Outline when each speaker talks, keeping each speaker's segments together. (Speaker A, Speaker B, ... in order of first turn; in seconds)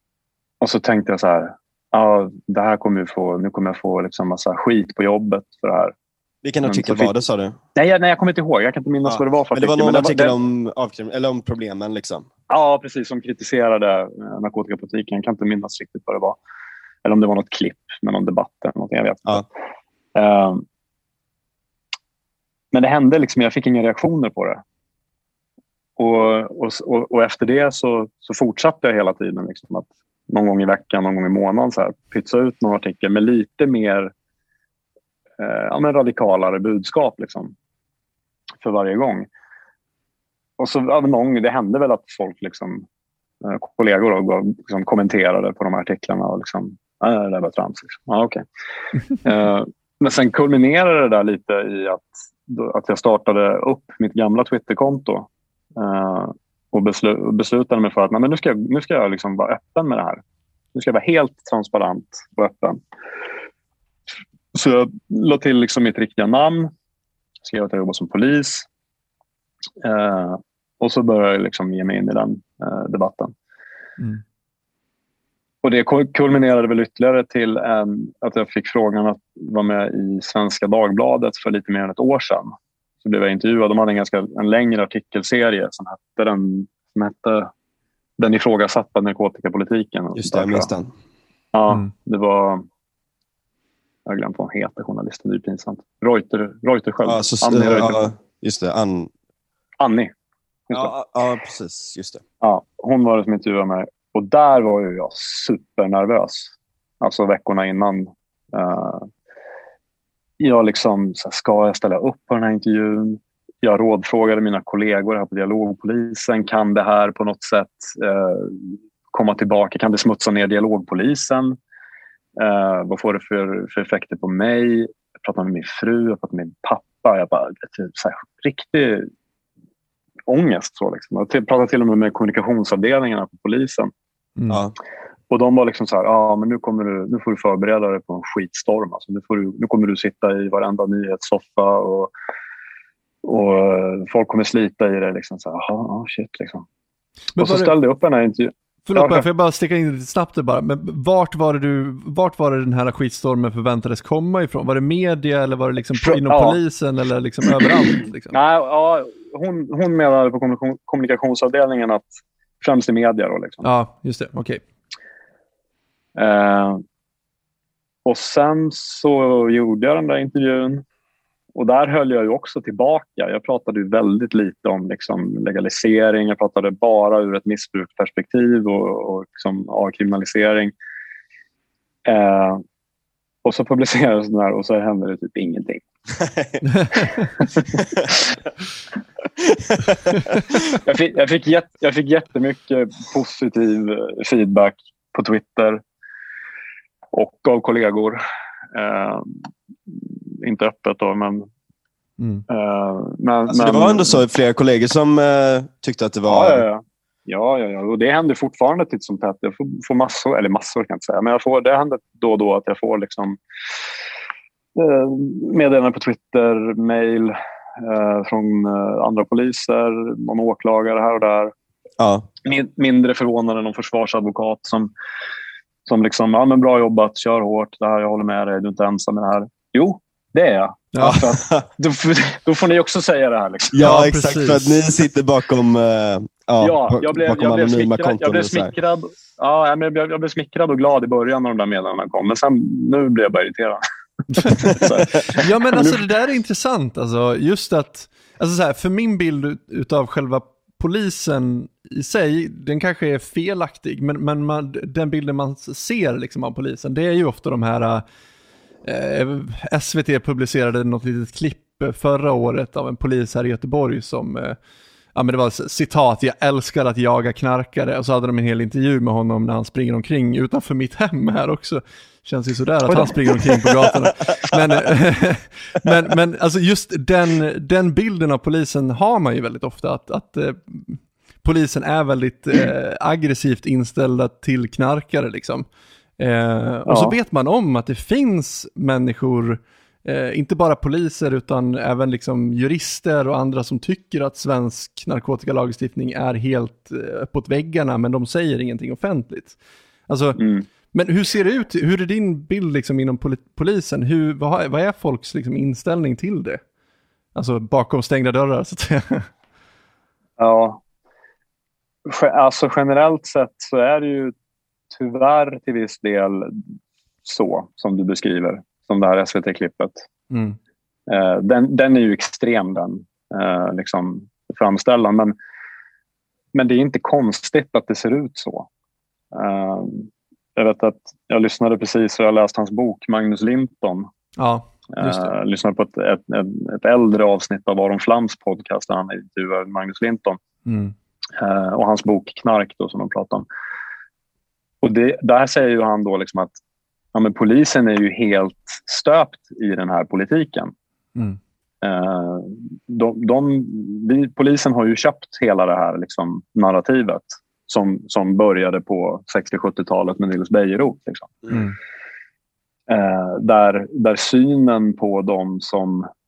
Speaker A: 0.6-5.9, 6.6-7.1, 7.7-10.3, 12.5-16.4, 17.0-19.5, 20.1-20.6, 22.7-24.6, 26.0-34.1, 35.4-37.5, 38.6-39.3, 40.6-42.9, 43.4-48.4, 49.2-60.2, 60.7-62.8, 64.5-66.7, 67.4-68.7, 69.8-73.3, 75.6-82.5, 83.0-87.5, 88.2-90.7, 91.5-92.6, 94.0-98.1, 99.8-100.1, 102.4-109.1, 110.4-121.6, 122.4-129.1, 130.3-133.9, 135.3-142.1, 143.2-146.7, 147.4-149.2, 156.0-156.6, 158.3-163.7, 166.2-166.8, 168.0-170.8, 171.5-180.7, 182.1-182.6, 183.4-185.8, 190.8-195.8, 197.1-198.2, 198.7-199.3, 199.9-201.5, 202.5-204.2, 206.3-213.4, 214.7-221.5, 222.4-224.9, 225.8-233.9, 236.6-243.8, 244.5-246.0, 272.9-273.1, 286.9-287.2, 300.4-300.6, 310.4-310.8, 312.1-314.3, 314.9-316.6, 317.2-320.0, 321.1-325.3, 326.5-328.7, 329.3-334.1, 334.9-340.4, 341.4-343.4, 344.8-346.6, 347.1-350.7, 351.8-361.4, 362.9-366.1
Speaker B: 6.4-7.5, 9.1-12.2, 90.1-90.9, 97.0-99.1, 100.7-102.2, 186.2-186.6, 187.8-188.0, 189.4-190.7, 203.5-206.6, 222.0-222.2, 231.0-231.6, 233.7-238.7
Speaker C: 134.4-134.6, 147.3-147.7, 148.8-158.4, 163.6-164.6, 186.7-187.1, 202.2-202.4, 230.9-231.2, 233.8-234.8, 245.3-258.0, 258.8-264.6, 265.1-285.6, 286.2-299.6, 300.1-300.4, 300.9-306.6, 307.3-309.3, 320.3-320.6, 334.4-335.3, 340.6-340.9